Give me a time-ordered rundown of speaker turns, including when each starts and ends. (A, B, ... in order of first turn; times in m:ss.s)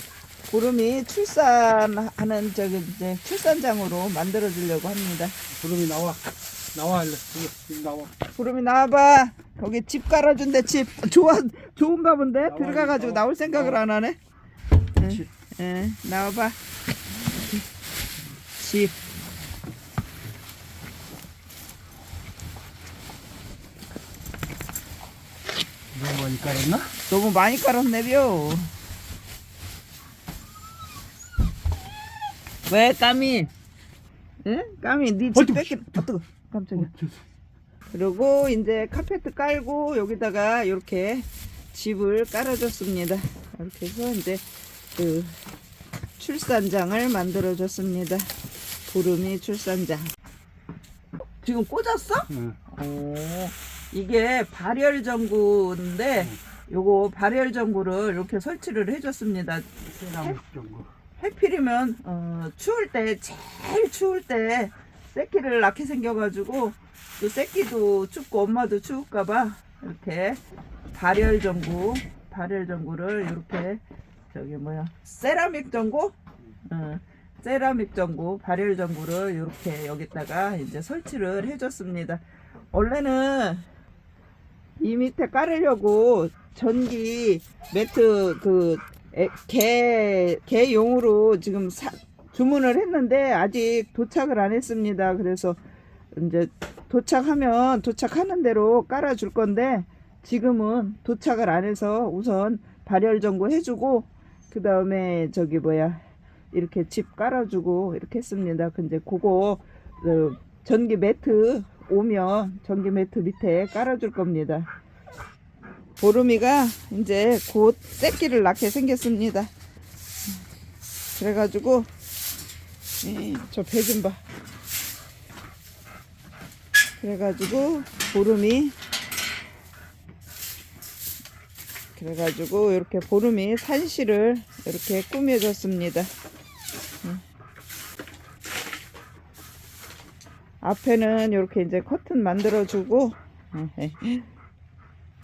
0:00.5-0:05.4 A
0:05.6-0:06.2 B
0:06.7-0:08.1 B
0:08.4-0:14.2 A
0:12.4-0:13.8 B
0:15.0-0:16.6 A
0:18.6-0:19.0 A
0:25.9-0:26.9 B
0:27.1-0:28.7 A
0:32.7-0:33.5 A
0:34.4-0:36.9 A
0:35.4-0:36.1 B
0:36.8-0:37.2 B
0:37.9-0:44.4 A
0:45.0-0:45.3 A
0:46.2-0:48.3 A
0:48.9-0:50.1 A
0:51.4-0:59.7 A
0:52.3-0:52.6 B
0:59.9-1:00.9 B
1:01.2-1:10.4 A
1:10.9-1:23.7 A
1:24.8-1:35.6 A
1:36.1-1:46.0 A
1:46.5-1:54.7 A
1:56.0-1:59.5 A
2:01.2-2:01.9 A
2:03.0-2:04.2 A
2:07.0-2:08.8 A
2:12.0-2:16.1 A
2:20.6-2:24.3 A